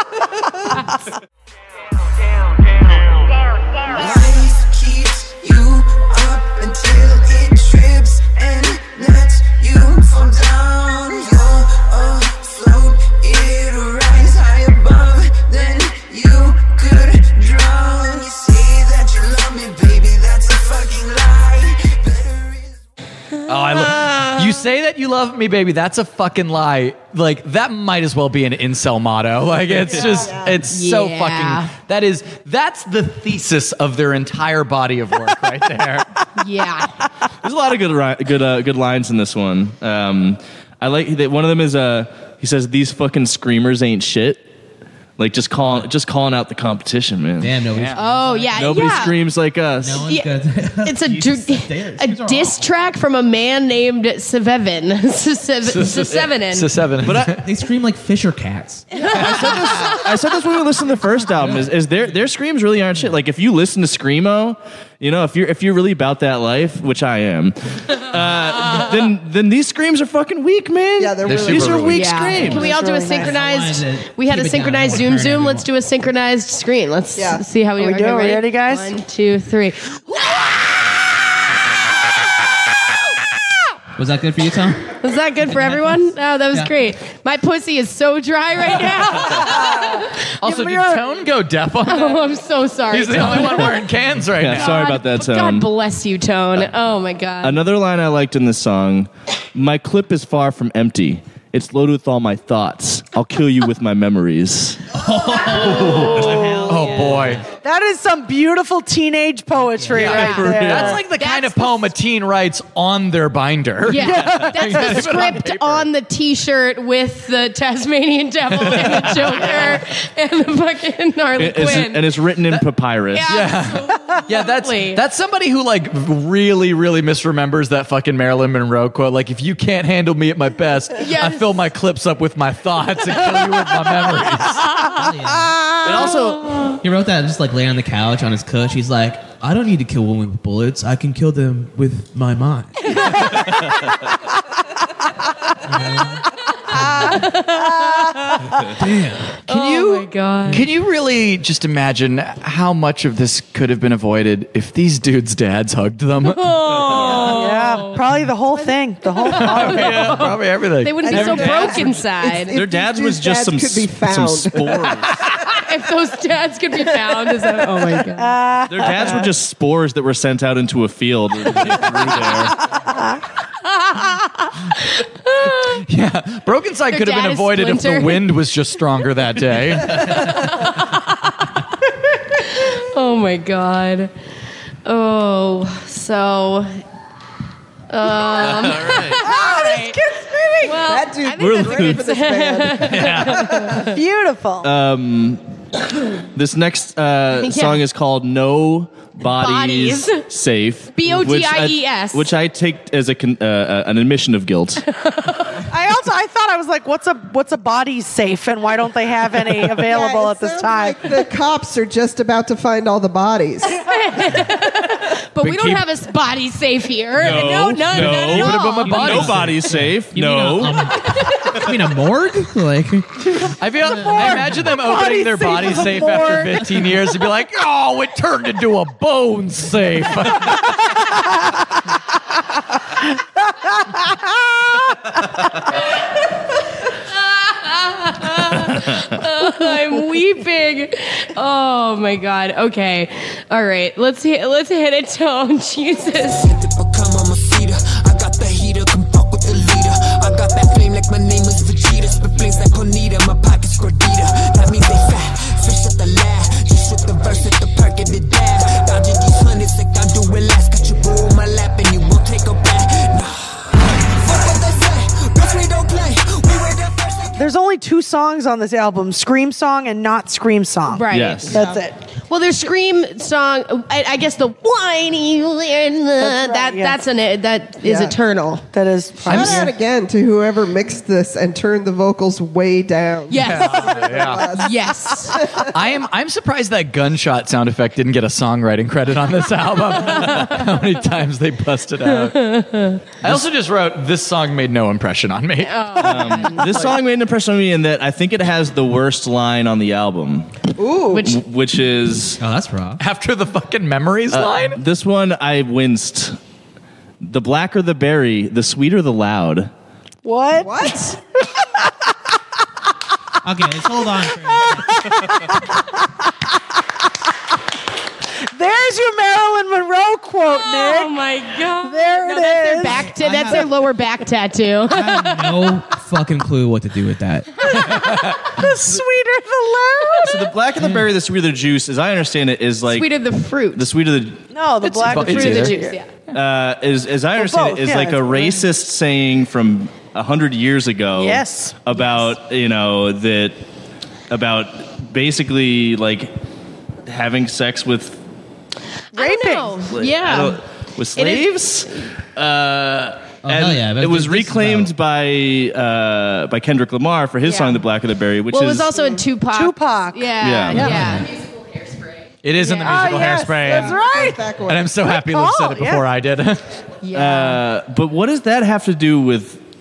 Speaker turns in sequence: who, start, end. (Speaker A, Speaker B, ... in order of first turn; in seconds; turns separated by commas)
Speaker A: 3.8-22.8, Speaker B: 23.5-36.1, Speaker C: 23.5-24.5, Speaker D: 29.8-30.3, Speaker E: 30.1-30.6, Speaker C: 30.7-31.7, Speaker C: 36.4-36.9, Speaker D: 37.4-44.5, Speaker D: 45.2-47.6, Speaker F: 45.6-45.9, Speaker F: 47.4-48.9, Speaker B: 47.7-48.0, Speaker C: 48.0-49.2, Speaker D: 48.5-50.1, Speaker F: 49.8-52.7, Speaker C: 50.0-50.3, Speaker C: 50.8-56.7, Speaker B: 55.6-57.4, Speaker F: 57.0-60.0, Speaker D: 57.0-57.4, Speaker C: 59.0-60.1, Speaker D: 59.0-72.7, Speaker F: 61.4-61.8, Speaker E: 71.0-72.1, Speaker B: 71.2-72.2, Speaker C: 71.9-80.5, Speaker G: 72.3-73.4, Speaker F: 72.3-75.7, Speaker E: 77.2-77.5, Speaker G: 77.8-79.0, Speaker F: 84.0-84.9, Speaker C: 85.0-90.1, Speaker F: 85.5-86.0, Speaker G: 89.3-91.1, Speaker B: 90.4-92.3, Speaker C: 91.8-93.9, Speaker B: 92.9-94.8, Speaker D: 94.3-95.7, Speaker C: 94.5-97.6, Speaker D: 97.4-106.6, Speaker F: 105.0-107.5, Speaker G: 106.1-106.9, Speaker B: 106.7-107.4, Speaker G: 107.4-111.0, Speaker F: 109.8-110.1, Speaker B: 109.9-115.9, Speaker D: 110.0-111.0, Speaker C: 110.0-111.9, Speaker C: 113.9-122.1, Speaker G: 114.0-115.1, Speaker D: 114.2-114.4, Speaker B: 118.7-119.8, Speaker D: 121.4-123.3, Speaker C: 123.1-125.0, Speaker B: 123.3-134.8, Speaker C: 131.0-131.6, Speaker F: 134.8-135.8, Speaker C: 135.8-136.5, Speaker D: 135.8-136.8, Speaker F: 136.8-143.0, Speaker C: 142.9-143.7, Speaker F: 145.7-147.4, Speaker C: 146.6-148.7, Speaker F: 148.8-149.4, Speaker B: 149.4-156.9, Speaker C: 149.5-150.7, Speaker C: 156.2-162.6, Speaker D: 156.7-157.4, Speaker G: 157.0-160.1, Speaker B: 159.3-161.4, Speaker D: 159.8-160.3, Speaker E: 161.0-165.1, Speaker D: 161.1-161.9, Speaker D: 162.5-165.3, Speaker C: 165.4-168.4, Speaker G: 168.0-169.3, Speaker D: 168.7-172.6, Speaker G: 172.7-173.2, Speaker C: 173.7-175.8, Speaker B: 175.8-180.5, Speaker C: 176.9-178.4, Speaker C: 179.8-181.5, Speaker C: 182.2-184.1, Speaker C: 184.8-186.8, Speaker C: 187.9-190.0, Speaker D: 188.3-189.2, Speaker G: 189.0-190.9, Speaker C: 190.6-194.0, Speaker E: 190.8-193.8, Speaker D: 191.4-192.1, Speaker B: 192.9-193.5, Speaker G: 193.8-194.7, Speaker D: 194.6-195.4, Speaker D: 196.2-204.8, Speaker C: 197.3-197.8, Speaker C: 199.2-200.2, Speaker C: 200.9-202.3, Speaker C: 204.8-205.6, Speaker G: 205.6-211.0, Speaker D: 209.6-209.9, Speaker E: 209.8-213.8, Speaker C: 213.8-219.4, Speaker B: 215.4-215.8, Speaker D: 217.2-220.9, Speaker B: 218.0-219.6, Speaker F: 218.8-224.7, Speaker C: 220.9-221.6, Speaker B: 223.6-231.0, Speaker G: 223.9-226.7, Speaker G: 233.5-234.7, Speaker C: 237.3-246.5, Speaker A: 246.4-267.4, Speaker G: 267.4-272.0, Speaker C: 270.9-271.7, Speaker D: 271.1-271.7, Speaker C: 272.3-278.6, Speaker G: 276.2-277.0, Speaker E: 277.8-278.1, Speaker G: 278.7-279.7, Speaker E: 279.2-285.7, Speaker C: 279.3-279.7, Speaker C: 283.3-285.5, Speaker B: 283.4-284.4, Speaker B: 285.6-292.6, Speaker C: 292.1-293.0, Speaker B: 293.2-296.9, Speaker C: 295.6-296.9, Speaker D: 296.0-300.6, Speaker E: 300.8-301.4, Speaker C: 301.1-301.4, Speaker D: 301.2-302.4, Speaker F: 302.4-303.0, Speaker B: 303.0-304.8, Speaker D: 304.3-306.4, Speaker D: 307.2-309.7, Speaker G: 310.2-311.2, Speaker E: 310.6-311.1, Speaker F: 313.4-315.2, Speaker G: 314.5-316.1, Speaker G: 318.5-321.2, Speaker C: 320.5-325.8, Speaker G: 321.8-323.1, Speaker F: 323.1-323.7, Speaker F: 324.9-327.8, Speaker B: 327.7-328.4, Speaker G: 327.9-330.5, Speaker D: 330.2-333.1, Speaker F: 330.8-331.1, Speaker C: 332.9-333.9, Speaker D: 333.7-334.4, Speaker G: 334.5-336.0, Speaker B: 334.8-335.8, Speaker C: 335.1-336.1, Speaker D: 336.3-343.6, Speaker G: 337.4-338.6, Speaker G: 341.1-341.8, Speaker D: 344.3-346.3, Speaker D: 347.1-348.2, Speaker G: 349.1-349.8, Speaker C: 349.1-350.6, Speaker D: 349.8-359.1, Speaker C: 351.1-352.1, Speaker F: 353.4-354.9, Speaker C: 357.4-357.8, Speaker C: 358.5-362.1, Speaker G: 359.4-360.9, Speaker D: 360.4-361.1, Speaker F: 360.7-361.3, Speaker B: 362.4-364.0, Speaker C: 362.6-363.0, Speaker G: 362.6-366.1, Speaker E: 363.5-364.9, Speaker B: 364.6-366.6, Speaker C: 367.0-367.6, Speaker D: 367.1-369.6